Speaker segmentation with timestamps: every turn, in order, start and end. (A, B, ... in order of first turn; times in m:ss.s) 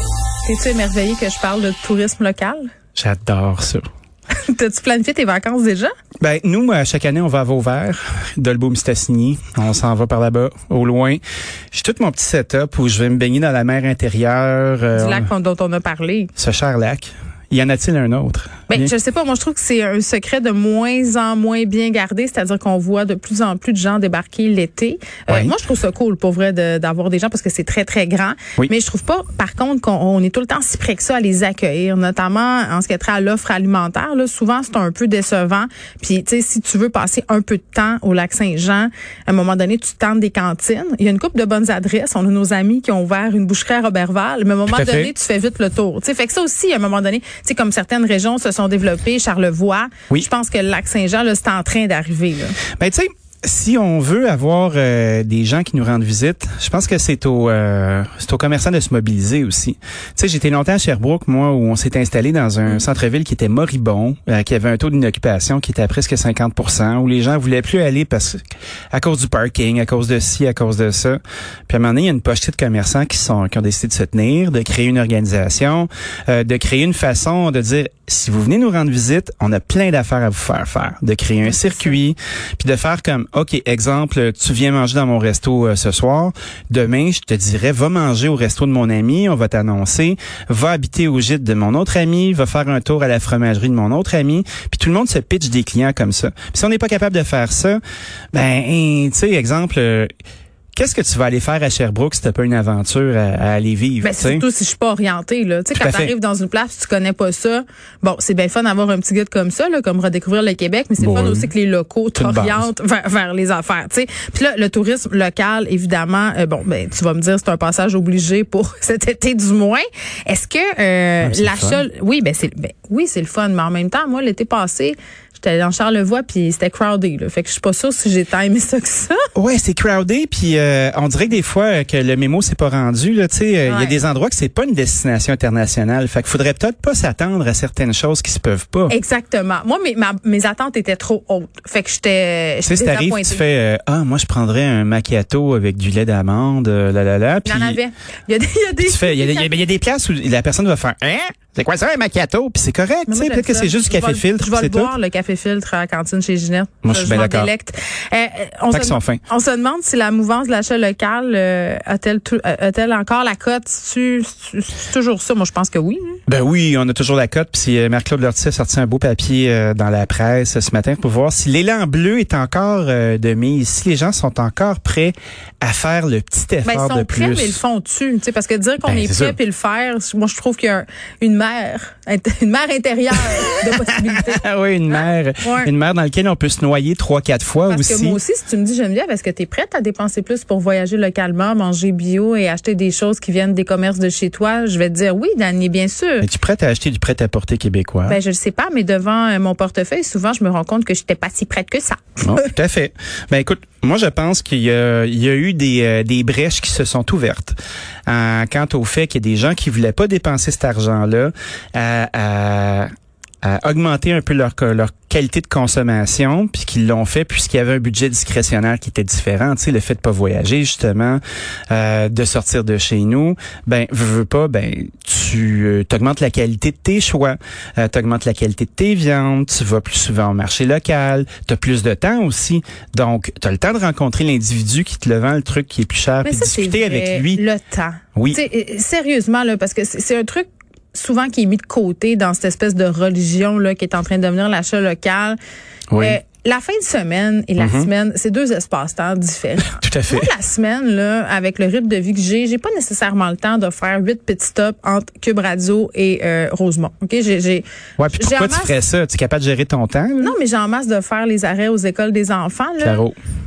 0:00.4-0:02.7 A
0:03.0-0:03.8 B
0:04.4-0:05.9 A
0:06.2-0:11.2 B
0:11.7-0:15.3 B
0:14.9-0:16.3 A
0:16.4-0:18.9 B
0:18.7-0:52.6 A
0:25.3-0:25.6 B
0:44.7-0:45.1 B
0:52.8-1:08.4 B
1:08.9-1:37.8 B
1:21.4-1:22.0 A
1:38.3-1:40.1 B
1:40.7-1:44.4 B
1:44.0-2:09.2 A
1:45.7-1:46.1 B
1:51.0-1:51.5 B
1:52.2-1:52.7 B
2:01.2-2:01.8 B
2:09.3-2:18.9 B
2:13.6-2:14.0 A
2:18.9-2:23.4 A
2:22.6-2:27.8 B
2:27.4-2:29.5 A
2:28.8-2:34.9 B
2:33.1-2:46.2 A
2:36.8-2:37.5 B
2:38.7-2:39.2 B
2:46.3-2:57.6 B
2:56.6-3:04.4 A
2:58.8-2:59.4 B
3:03.3-3:08.2 B
3:05.4-3:05.7 A
3:07.7-3:16.3 A
3:16.2-3:18.2 B
3:18.1-3:22.2 A
3:22.2-3:27.6 B
3:28.1-3:32.9 B
3:33.4-3:57.4 B
3:56.2-4:05.4 A
3:58.2-3:58.4 B
4:05.9-4:06.2 B
4:06.0-4:18.8 A
4:07.6-4:07.9 B
4:09.7-4:10.3 B
4:18.0-4:20.4 B
4:20.2-4:23.0 A
4:22.8-4:23.1 B